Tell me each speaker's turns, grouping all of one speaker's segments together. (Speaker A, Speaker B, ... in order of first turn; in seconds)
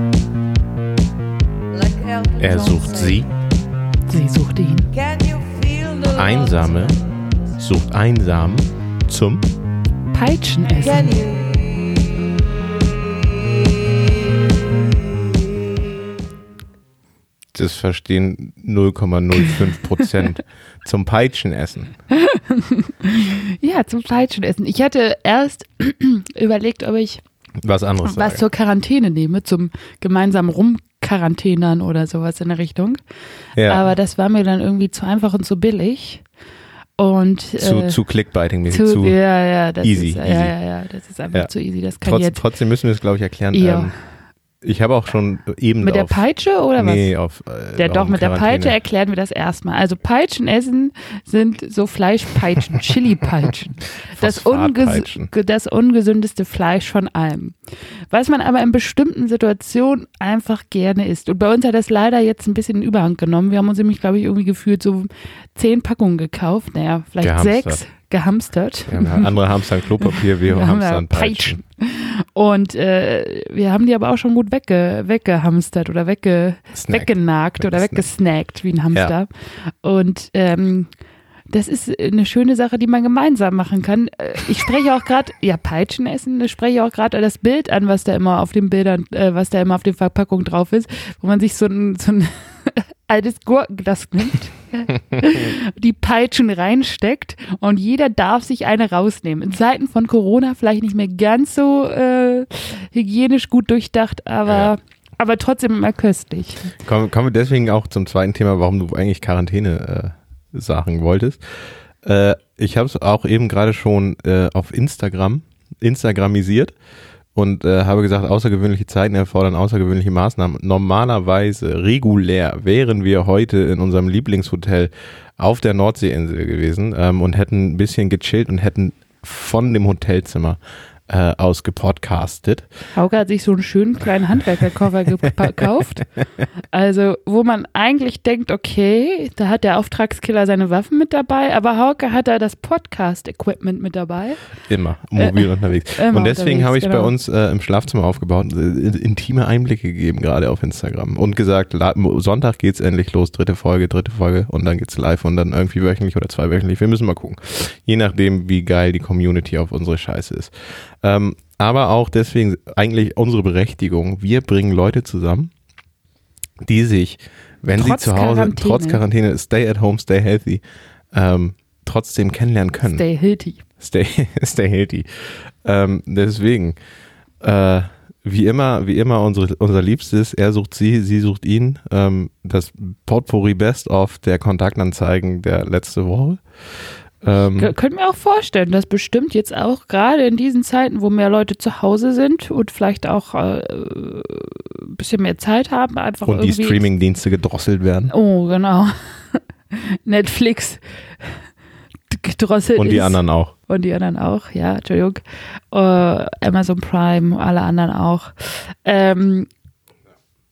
Speaker A: 1.7-3.3, 4.9-7.1, 10.8-12.2
Speaker B: 2.4-3.3, 6.1-6.9, 7.6-9.4, 17.5-21.9, 27.6-28.4, 33.5-33.9, 37.6-39.2, 39.8-40.5, 42.0-43.9, 44.6-46.2, 46.8-48.8, 54.1-55.3, 67.2-67.8, 68.9-71.6, 76.7-78.0, 106.8-111.4, 112.0-116.7, 117.3-132.7, 135.3-135.6, 144.7-165.5, 166.6-173.0, 173.8-176.8, 177.4-186.4, 187.2-187.7, 196.2-198.1, 202.8-203.5
Speaker C: 4.1-4.9, 10.1-11.1, 22.1-27.2, 28.0-33.0, 33.6-36.2, 37.0-38.0, 38.7-42.4, 43.5-43.9, 45.8-47.1, 47.8-57.5, 58.1-69.3, 70.0-80.9, 81.5-106.8, 132.9-136.1, 136.7-144.4, 145.2-147.1, 167.7-169.0, 172.8-173.6, 187.5-196.9, 198.1-201.3, 202.1-205.2, 205.7-209.5